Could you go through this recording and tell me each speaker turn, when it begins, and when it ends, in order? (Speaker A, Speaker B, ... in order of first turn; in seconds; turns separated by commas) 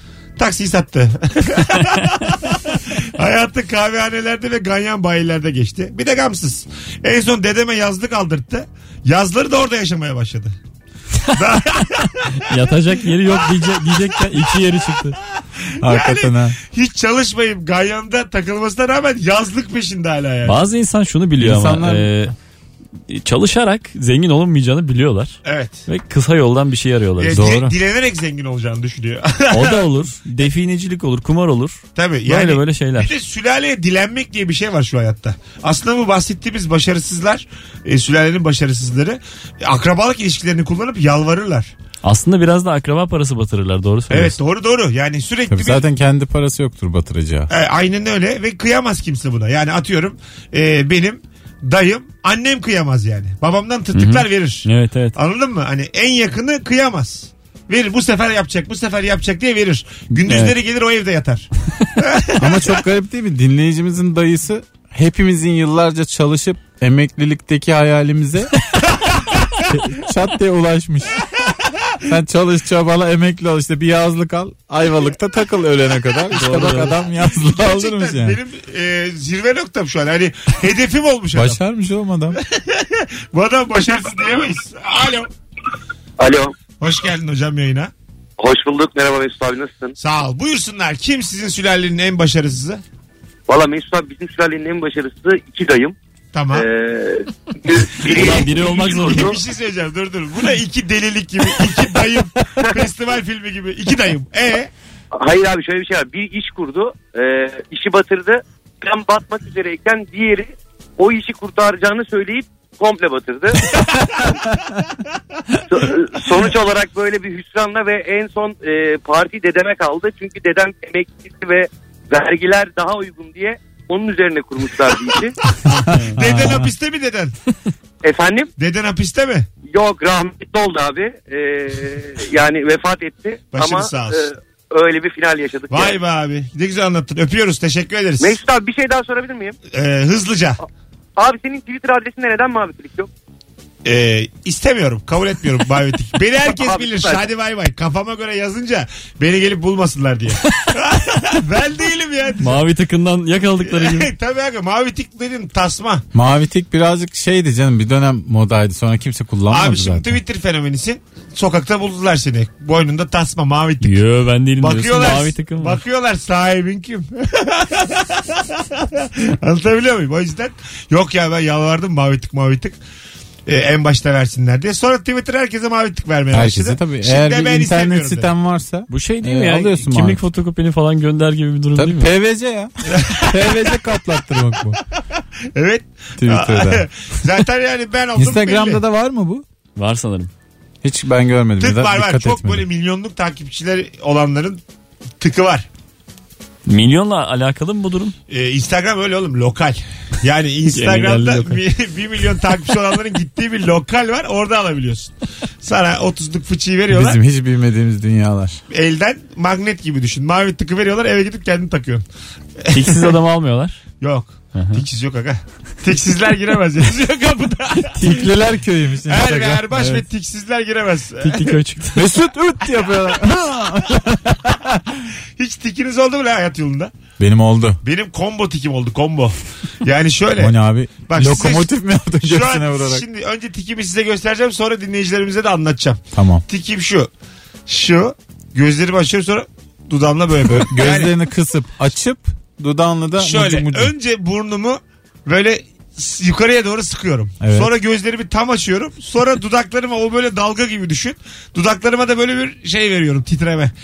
Speaker A: 0.4-10.5, Speaker A: 11.3-12.5, Speaker B: 12.4-15.2, Speaker C: 15.8-16.6, Speaker A: 15.8-20.6, Speaker B: 20.4-22.3, Speaker C: 21.4-22.1, Speaker B: 23.1-27.7, Speaker A: 25.4-25.8, Speaker A: 27.2-29.8, Speaker C: 27.3-27.7, Speaker B: 29.5-33.1, Speaker A: 31.9-41.7, Speaker B: 42.0-44.4, Speaker A: 44.1-45.8, Speaker C: 45.5-47.5, Speaker A: 47.5-62.8, Speaker B: 53.9-55.2, Speaker B: 60.1-60.5, Speaker C: 62.4-68.5, Speaker A: 68.9-69.4, Speaker C: 69.7-71.2, Speaker C: 72.0-78.4, Speaker B: 76.3-77.0, Speaker A: 77.3-81.6, Speaker C: 81.3-82.4, Speaker A: 82.3-85.3, Speaker D: 86.2-86.5, Speaker A: 86.8-87.9, Speaker D: 88.4-89.9, Speaker A: 90.0-92.8, Speaker D: 93.5-96.0, Speaker A: 96.3-96.7, Speaker D: 96.5-98.5, Speaker B: 98.0-99.4, Speaker A: 98.1-104.7, Speaker D: 105.2-114.4, Speaker D: 115.7-125.3, Speaker C: 125.8-126.7, Speaker A: 125.8-127.3, Speaker D: 128.0-128.5, Speaker A: 128.6-129.5, Speaker D: 129.7-136.0, Speaker A: 133.5-134.2, Speaker A: 135.7-138.4, Speaker D: 138.2-139.6, Speaker A: 139.7-140.6, Speaker D: 141.2-143.1, Speaker A: 143.8-152.6, Speaker D: 146.5-147.2, Speaker B: 152.4-154.1, Speaker A: 153.7-156.1, Speaker C: 156.1-160.2, Speaker A: 159.5-164.0, Speaker B: 163.8-165.8, Speaker A: 164.6-172.8, Speaker A: 173.4-178.3, Speaker C: 176.3-180.2, Speaker B: 178.9-182.1, Speaker C: 181.7-184.8, Speaker A: 182.9-183.6, Speaker A: 185.5-188.8, Speaker C: 186.2-186.9, Speaker C: 188.2-189.4, Speaker B: 189.8-190.3, Speaker C: 190.8-192.6, Speaker A: 191.6-194.6, Speaker A: 195.2-195.7, Speaker B: 196.7-198.1, Speaker A: 198.3-207.2, Speaker B: 200.7-201.6, Speaker C: 206.9-208.6, Speaker A: 208.7-212.0, Speaker A: 212.6-213.2, Speaker B: 212.7-213.8, Speaker A: 214.0-218.3, Speaker B: 214.5-214.8, Speaker C: 217.9-219.8, Speaker A: 219.1-221.6, Speaker B: 219.7-220.0, Speaker B: 221.2-222.1, Speaker C: 221.9-225.0, Speaker A: 225.4-226.9, Speaker C: 227.2-227.8, Speaker A: 227.8-230.6, Speaker C: 230.4-233.0, Speaker A: 231.1-237.1, Speaker C: 236.1-236.4, Speaker A: 237.7-241.1, Speaker C: 240.4-243.9, Speaker A: 243.2-253.7, Speaker C: 247.4-247.7